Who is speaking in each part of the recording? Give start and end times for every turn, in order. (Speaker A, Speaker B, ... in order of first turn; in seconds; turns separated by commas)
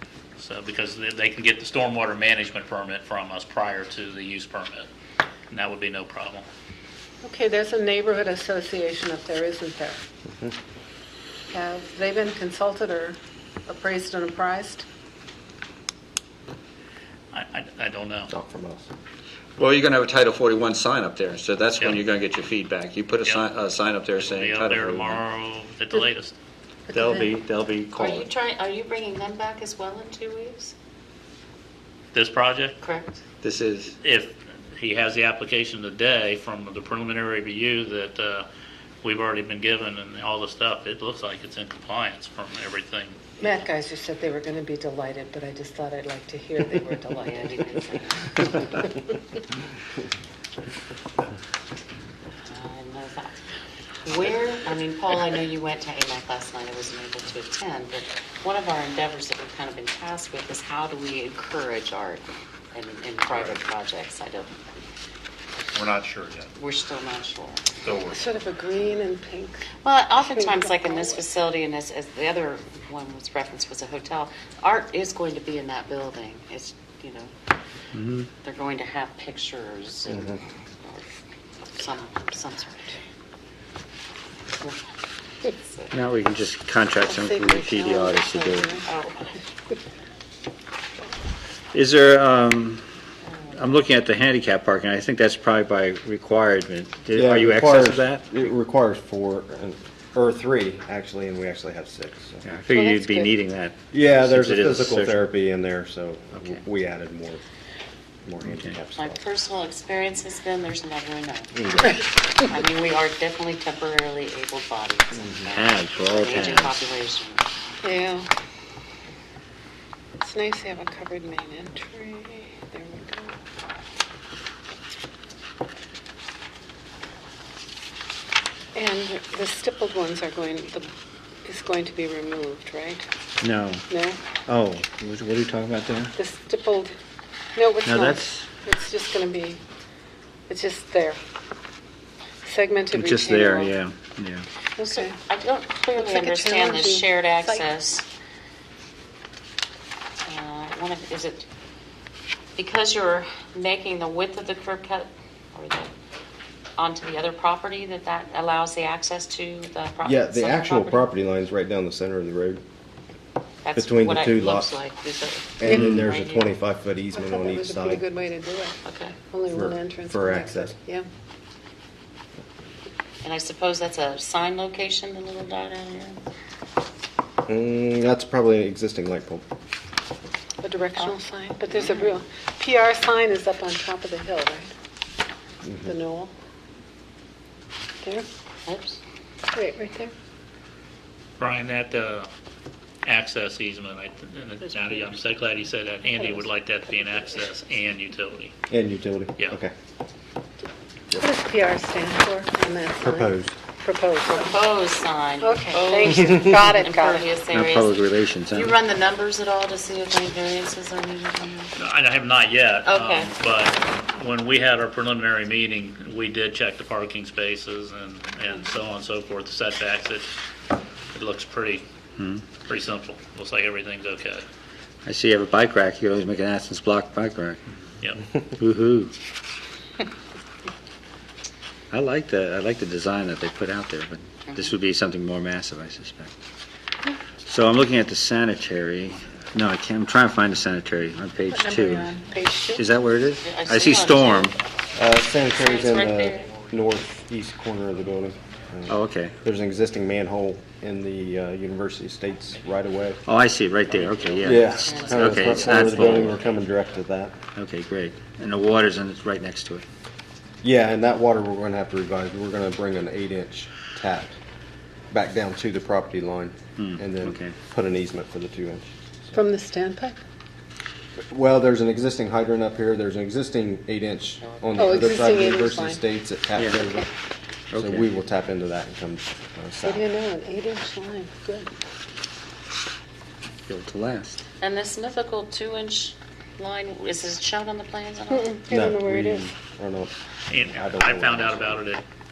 Speaker A: 0.4-4.9, Speaker A: 5.5-6.5, Speaker B: 7.2-10.0, Speaker B: 11.5-14.8, Speaker A: 17.3-18.3, Speaker C: 18.3-18.9, Speaker D: 19.6-25.2, Speaker E: 19.6-20.8, Speaker E: 22.1-22.4, Speaker A: 24.2-26.3, Speaker D: 26.9-28.3, Speaker F: 28.0-30.7, Speaker A: 32.1-32.8, Speaker F: 32.8-33.2, Speaker D: 33.4-33.9, Speaker A: 34.0-38.5, Speaker A: 39.0-43.4, Speaker B: 43.4-47.8, Speaker F: 47.2-48.9, Speaker B: 48.4-48.6, Speaker F: 52.5-53.4, Speaker F: 54.0-64.6, Speaker E: 63.3-63.6, Speaker E: 65.7-66.5, Speaker F: 66.5-67.7, Speaker E: 67.8-68.2, Speaker B: 68.1-69.7, Speaker F: 69.8-77.3, Speaker B: 70.2-71.2, Speaker D: 77.9-78.3, Speaker F: 78.4-81.0, Speaker C: 80.1-80.4, Speaker F: 81.7-82.8, Speaker F: 85.5-85.9, Speaker D: 85.9-88.7, Speaker B: 87.0-88.8, Speaker F: 88.8-89.4, Speaker D: 91.7-92.8, Speaker F: 93.3-93.7, Speaker D: 93.5-98.5, Speaker C: 97.1-102.4, Speaker D: 102.4-105.2, Speaker B: 102.7-103.3, Speaker C: 103.9-107.4, Speaker C: 108.2-109.3, Speaker F: 109.0-117.4, Speaker C: 111.5-111.9, Speaker D: 115.5-116.8, Speaker B: 117.8-118.3, Speaker B: 120.2-123.3, Speaker B: 128.7-130.9, Speaker B: 131.4-133.0, Speaker D: 133.4-133.8, Speaker B: 133.9-134.2, Speaker D: 134.5-136.1, Speaker B: 136.2-136.9, Speaker B: 137.5-139.6, Speaker D: 137.8-138.5, Speaker B: 140.5-141.2, Speaker B: 142.4-143.7, Speaker D: 142.9-144.4, Speaker B: 144.8-145.2, Speaker F: 144.8-148.1, Speaker B: 145.9-147.6, Speaker F: 150.2-151.5, Speaker F: 152.6-155.9, Speaker F: 156.8-161.1, Speaker C: 160.0-162.6, Speaker F: 163.6-166.6, Speaker C: 163.8-164.7, Speaker C: 165.6-168.0, Speaker B: 165.7-166.0, Speaker B: 167.1-168.8, Speaker F: 168.8-169.2, Speaker B: 169.3-171.1, Speaker C: 169.5-170.7, Speaker F: 173.2-176.2, Speaker C: 177.5-179.4, Speaker B: 180.6-184.7, Speaker F: 181.7-182.2, Speaker C: 185.6-185.9, Speaker B: 185.8-186.3, Speaker F: 188.7-189.0, Speaker B: 189.5-190.1, Speaker A: 191.4-192.3, Speaker A: 193.0-198.5, Speaker C: 198.7-199.7, Speaker B: 201.2-204.5, Speaker C: 203.0-203.6, Speaker F: 204.3-211.7, Speaker B: 205.4-207.3, Speaker D: 207.5-208.8, Speaker A: 211.8-220.3, Speaker F: 212.8-213.3, Speaker A: 221.1-221.8, Speaker D: 222.2-222.4, Speaker A: 222.6-224.4, Speaker D: 225.0-227.6, Speaker D: 228.6-229.1, Speaker D: 231.9-236.3, Speaker F: 234.5-234.7, Speaker D: 237.4-242.1, Speaker B: 241.5-242.9, Speaker D: 242.8-244.6, Speaker F: 243.4-244.6, Speaker C: 244.9-253.2, Speaker F: 245.5-246.5, Speaker D: 248.9-249.4, Speaker D: 253.2-256.4, Speaker C: 254.4-257.4, Speaker F: 254.8-256.4, Speaker D: 257.5-259.8, Speaker C: 260.6-264.4, Speaker C: 265.1-269.3, Speaker D: 266.8-267.6, Speaker B: 269.3-270.2, Speaker C: 271.2-277.1, Speaker B: 274.8-276.0, Speaker D: 276.6-276.8, Speaker D: 277.7-278.1, Speaker C: 277.7-280.1, Speaker B: 279.8-281.7, Speaker D: 283.7-284.4, Speaker F: 284.6-288.5, Speaker B: 288.3-289.6, Speaker C: 288.7-291.8, Speaker A: 290.5-292.0